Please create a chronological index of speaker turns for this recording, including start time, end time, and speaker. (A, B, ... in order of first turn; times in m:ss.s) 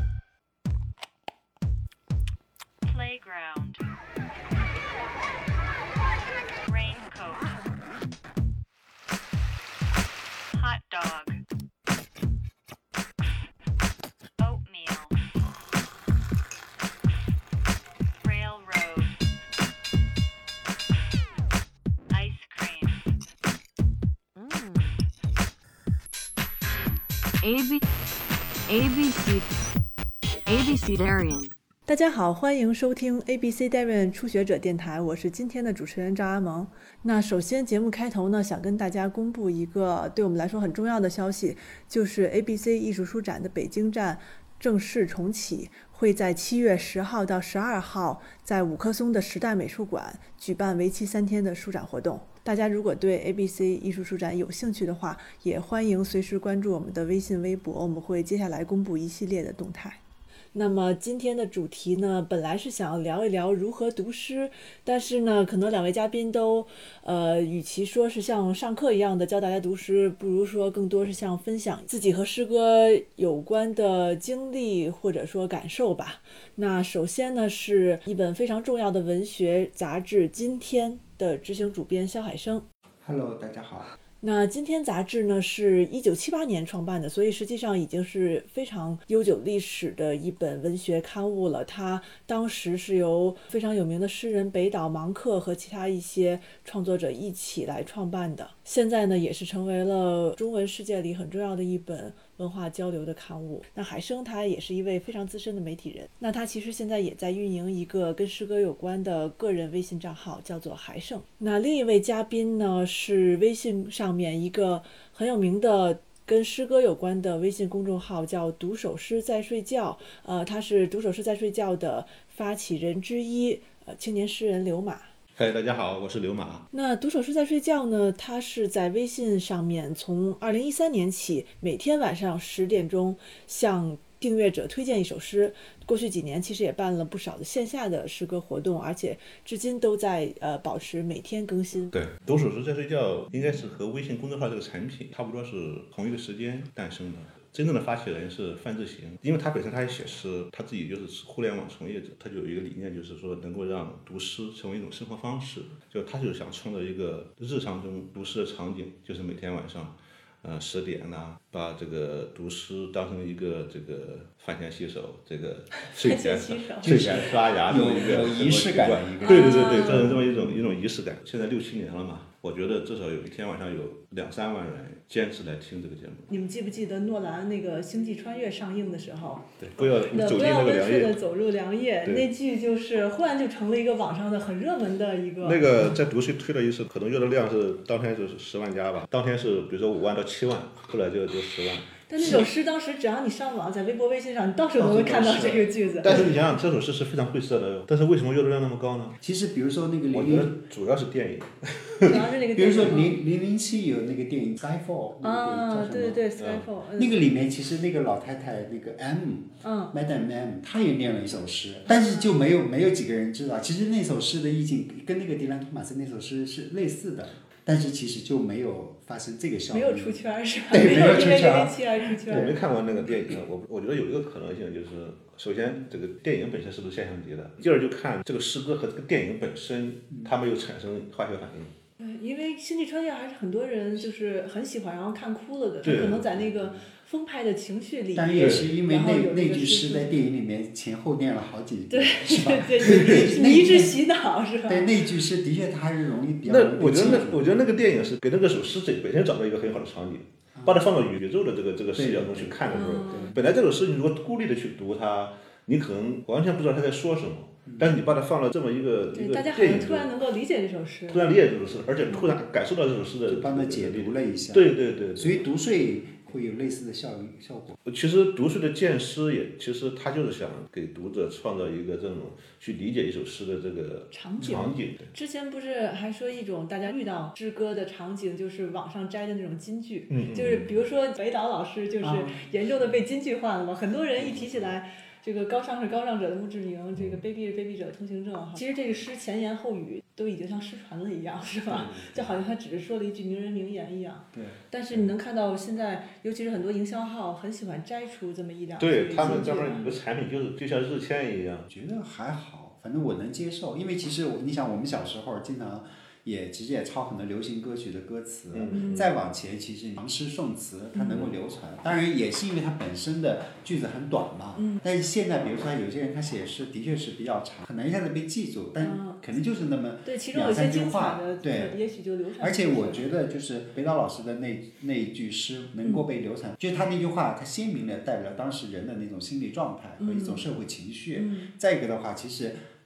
0:02.8-0:03.8 A
0:06.6-0:07.6 A
0:10.5-0:11.4 A
0:14.4-0:15.2 A
0:18.2-0:19.2 A
0:22.1-0:23.1 A
0:24.4-0:25.0 B
0:27.4-0:27.8 B
0:28.7-0:29.5 B
0:30.4-0:31.5 B
0:31.9-1:00.0 C
1:00.5-1:22.6 C
1:23.0-1:23.9 D
1:24.2-2:05.1 C
2:05.4-2:06.7 E
2:06.7-2:21.9 C
2:21.9-2:56.3 E
2:45.8-2:47.2 C
2:46.8-2:49.8 D
2:49.2-2:50.2 C
2:56.3-3:05.6 C
2:59.6-3:01.1 E
3:05.4-3:12.4 E
3:12.1-3:16.2 C
3:14.8-3:16.3 D
3:16.0-3:19.2 E
3:19.2-3:20.6 D
3:20.1-3:22.2 E
3:22.0-3:23.1 C
3:22.5-3:26.2 D
3:25.2-3:27.2 C
3:26.4-3:26.6 E
3:27.0-3:40.2 D
3:29.6-3:29.9 C
3:31.9-3:32.3 C
3:39.7-3:42.5 C
3:40.7-3:42.5 D
3:42.3-3:51.7 E
3:52.0-4:00.1 C
3:55.8-3:56.2 E
3:56.0-3:56.9 D
3:58.1-4:04.0 D
3:58.4-3:58.6 E
4:01.9-4:04.9 C
4:04.6-4:07.4 D
4:06.4-4:20.1 E
4:10.5-4:10.9 D
4:12.0-4:13.4 D
4:12.7-4:13.4 C
4:17.6-4:17.9 D
4:19.1-4:21.3 C
4:21.1-4:25.4 E
4:23.2-4:27.8 D
4:27.8-4:35.1 E
4:34.1-5:00.0 C
4:34.4-4:34.7 D
4:40.1-4:40.7 E
4:42.0-4:42.9 D
4:44.2-4:44.7 D
4:51.7-4:52.1 E
4:54.3-4:54.6 D
4:58.8-5:01.7 E
5:01.7-5:21.8 D
5:08.5-5:09.1 E
5:08.7-5:09.1 C
5:10.9-5:11.3 C
5:14.6-5:14.8 C
5:18.8-5:19.2 C
5:20.0-5:23.0 C
5:22.4-5:32.6 D
5:30.0-5:30.4 C
5:31.2-5:31.5 C